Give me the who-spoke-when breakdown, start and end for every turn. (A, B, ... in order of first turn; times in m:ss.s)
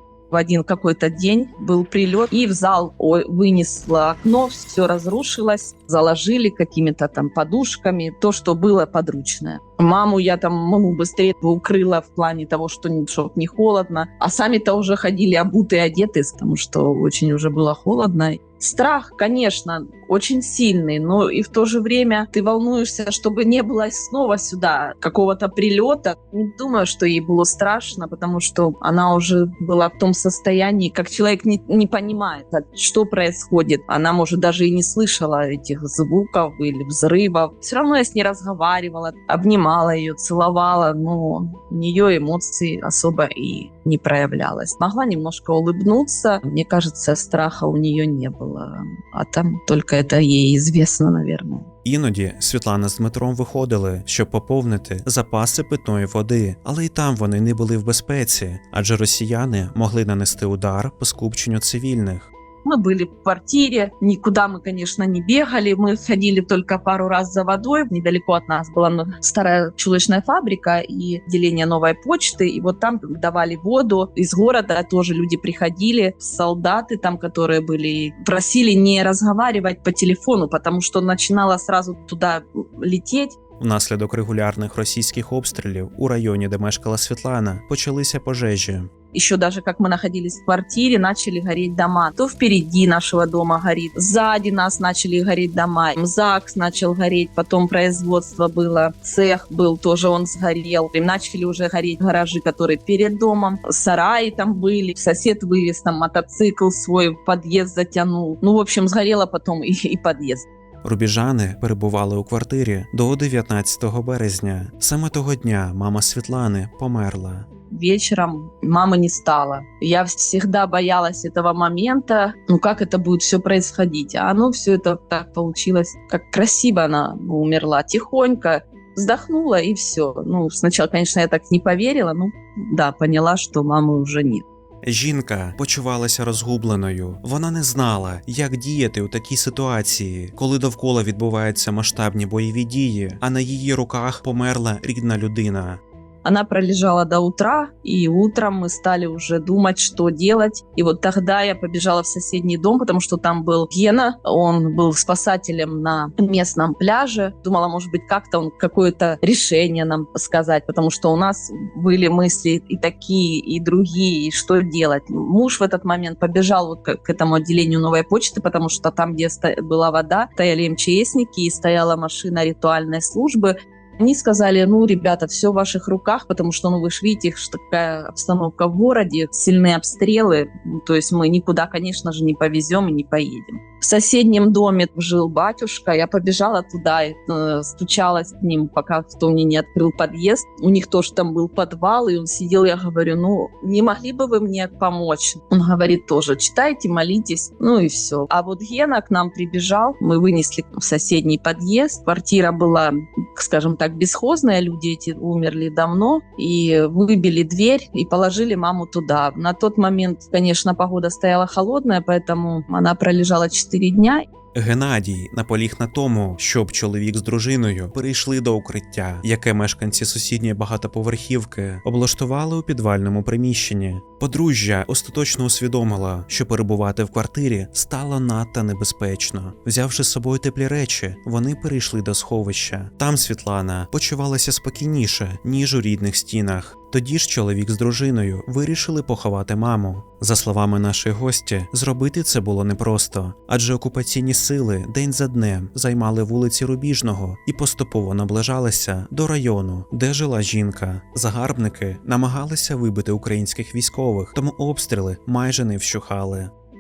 0:00.3-0:51.7 A
0:51.8-1:02.3 B
1:02.6-1:23.4 A
1:23.6-1:28.9 B
1:29.1-1:50.5 A
1:50.8-1:57.5 B
1:57.7-2:14.4 A
2:14.8-2:25.8 B
2:26.2-3:34.3 A
3:34.5-4:16.5 B